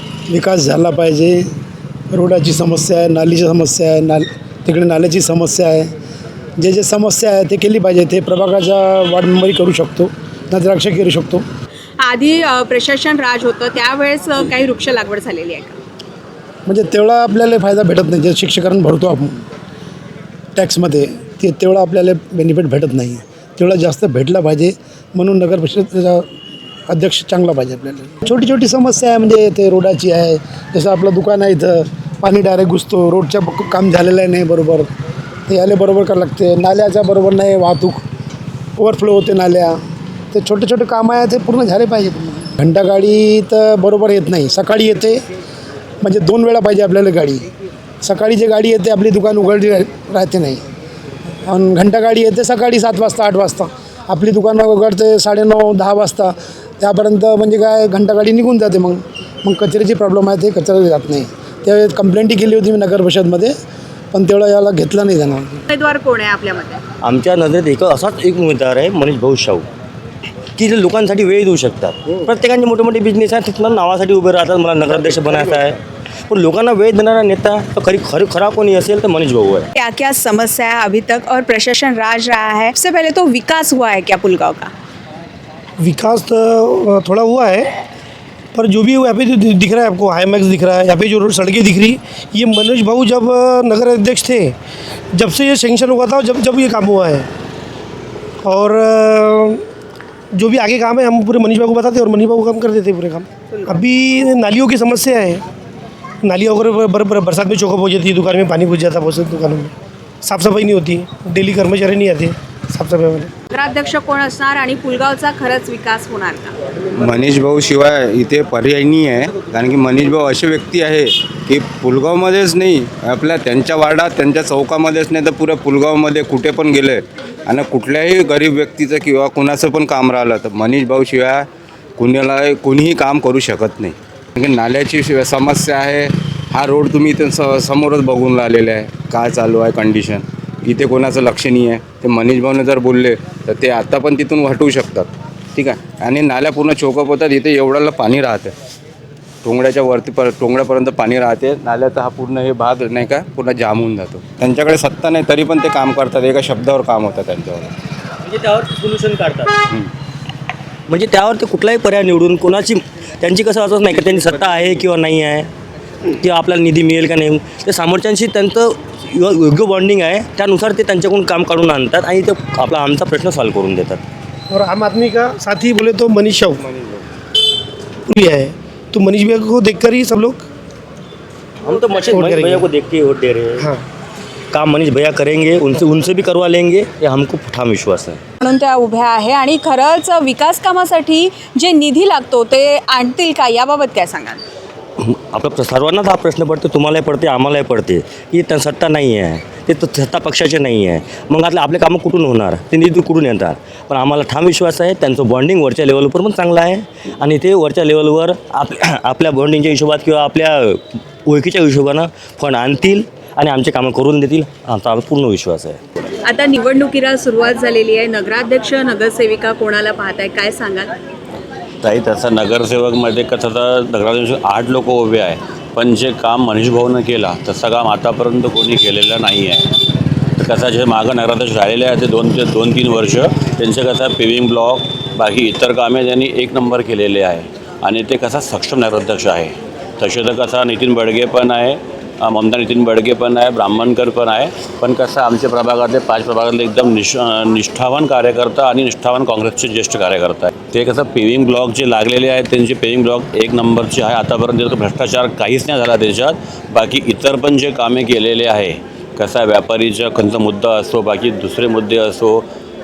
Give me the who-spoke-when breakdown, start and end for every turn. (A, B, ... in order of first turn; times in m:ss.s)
0:00.3-0:01.4 A
0:02.1-0:05.9 A
0:06.6-0:11.4 A
0:12.0-0:15.8 B
0:16.7-0:19.4 A
0:20.6-0:26.3 A
0:26.9-0:34.9 A
0:35.5-0:38.0 A
0:38.8-0:39.8 A
0:40.3-0:45.2 A
0:46.0-0:47.4 A
0:48.0-0:50.6 A
0:51.5-1:03.5 A
1:04.1-1:05.6 A
1:05.7-1:06.8 B
1:07.0-1:09.7 C
1:10.6-1:15.8 C
1:16.3-1:19.7 C
1:19.8-1:24.7 B
1:25.8-1:27.7 D
1:28.6-1:34.6 D
1:35.1-1:37.3 D
1:38.4-1:39.6 D
1:40.3-1:45.4 D
1:46.2-1:49.7 D
1:50.2-1:53.3 D
1:53.5-1:56.5 B
1:57.0-2:11.5 E
2:12.0-2:28.6 E
2:29.4-2:37.7 E
2:38.3-2:39.6 C
2:40.9-2:45.5 C
2:46.2-2:54.0 C
2:54.5-2:56.6 D
2:56.7-2:57.0 E
2:58.1-3:00.4 D
3:01.6-3:03.7 C
3:02.1-3:02.7 D
3:04.5-3:08.2 C
3:08.4-3:14.4 B
3:15.0-3:35.8 C
3:36.2-3:40.9 B
3:41.8-3:49.7 F
3:50.4-4:22.4 F